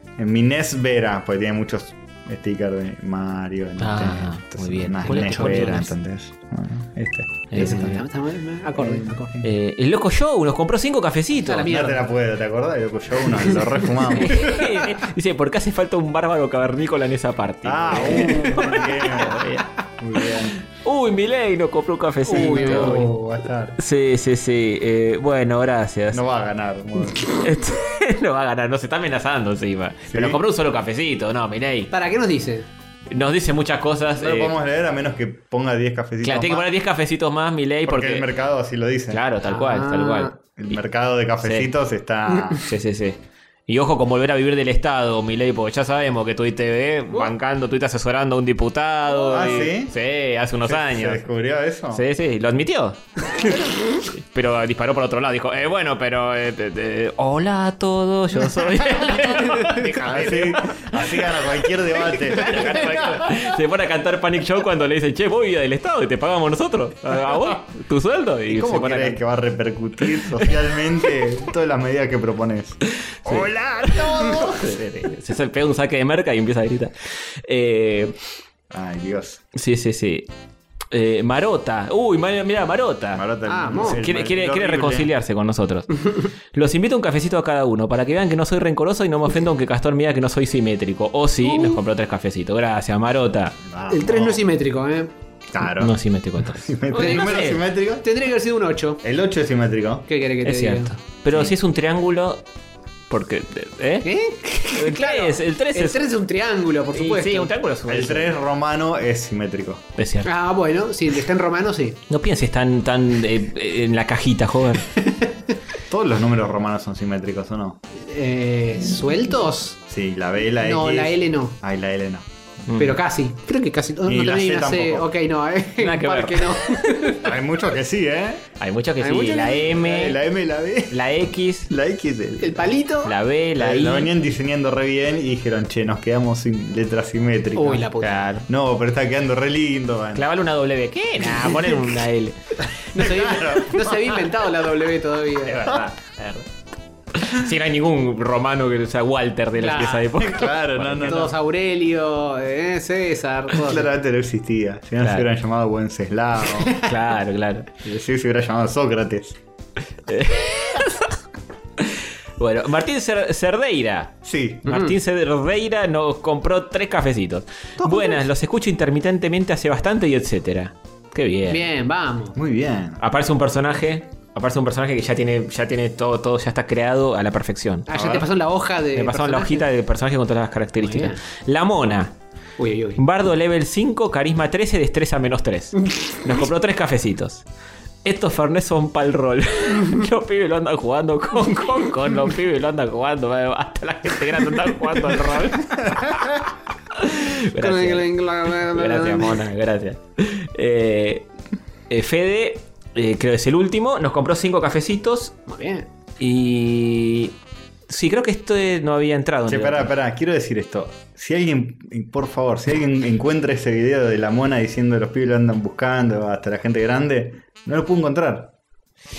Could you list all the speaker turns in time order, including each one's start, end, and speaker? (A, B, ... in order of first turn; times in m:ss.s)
0:00.2-0:08.0 A
0:03.8-0:05.9 B
0:05.0-0:05.9 C
0:07.5-0:08.0 B
0:07.6-0:09.4 C
0:08.8-0:09.4 A
0:09.4-0:11.7 B
0:11.4-0:12.0 C
0:11.6-0:14.8 A
0:14.2-0:19.7 B
0:17.6-0:20.6 A
0:18.0-0:18.8 C
0:20.2-0:23.1 B
0:22.2-0:23.1 C
0:22.3-0:23.8 A
0:23.8-0:26.2 B
0:26.1-0:27.3 A
0:27.4-0:31.9 B
0:30.1-0:30.4 A
0:31.9-0:32.7 C
0:33.1-0:34.5 B
0:34.2-0:36.7 A
0:36.2-0:38.3 B
0:37.8-0:39.2 A
0:39.1-0:40.7 B
0:39.4-0:40.3 C
0:40.6-0:42.6 A
0:41.4-0:41.7 B
0:42.6-0:51.2 B
0:49.1-0:49.7 C
0:49.3-0:49.9 A
0:50.6-0:52.0 A
0:51.9-1:01.3 B
0:53.4-0:53.6 C
1:00.0-1:03.3 A
1:02.1-1:09.2 B
1:08.5-1:14.8 A
1:13.0-1:18.2 B
1:18.7-1:19.4 A
1:19.5-1:20.3 B
1:20.9-1:33.6 B
1:23.1-1:25.1 A
1:23.5-1:24.0 C
1:31.4-1:31.8 C
1:33.6-1:34.4 A
1:33.9-1:35.1 C
1:35.5-1:38.0 A
1:35.8-1:37.6 B
1:36.9-1:39.0 C
1:39.0-1:40.0 A
1:40.1-1:40.9 C
1:40.4-1:42.4 B
1:41.3-1:41.5 A
1:43.1-1:46.1 B
1:44.0-1:47.5 C
1:46.9-1:48.3 B
1:47.9-1:49.8 A
1:50.0-1:50.3 B
1:50.2-1:52.0 C
1:52.1-1:54.9 B
1:55.0-1:55.3 C
1:55.9-1:57.8 A
1:58.0-1:59.8 C
1:59.9-2:02.2 A
2:00.5-2:01.6 C
2:02.7-2:03.0 B
2:02.8-2:07.3 C
2:04.0-2:05.1 A
2:05.8-2:07.1 B
2:07.2-2:08.4 A
2:08.6-2:10.2 B
2:09.0-2:09.7 C
2:09.7-2:11.0 A
2:10.9-2:11.7 B
2:11.7-2:12.8 A
2:12.4-2:13.1 C
2:13.0-2:14.1 B
2:13.6-2:17.9 A
2:17.5-2:18.2 C
2:18.0-2:18.4 B
2:18.4-2:20.3 A
2:20.1-2:22.4 B
2:21.3-2:21.7 A
2:22.9-2:25.7 C
2:23.0-2:24.1 A
2:25.4-2:26.4 B
2:25.5-2:25.8 A
2:27.1-2:31.3 B
2:29.6-2:30.0 C
2:29.8-2:31.3 A
2:31.0-2:33.9 C
2:33.6-2:36.8 A
2:35.0-2:35.3 B
2:36.8-2:37.7 B
2:37.8-2:39.4 A
2:40.1-2:41.1 B
2:41.8-2:51.6 B
2:44.2-2:44.6 A
2:44.6-2:44.9 C
2:47.8-2:48.2 C
2:51.5-2:52.4 C
2:52.3-2:53.0 A
2:53.0-2:57.9 B
2:57.9-2:59.6 C
2:57.9-2:58.2 A
2:58.9-3:02.2 B
3:00.8-3:01.2 C
3:02.6-3:03.0 C
3:03.0-3:07.4 B
3:08.0-3:21.3 B
3:17.6-3:19.4 C
3:21.9-3:25.4 B
3:25.5-3:25.9 C
3:26.2-3:27.4 B
3:27.9-3:29.9 B
3:29.5-3:38.5 A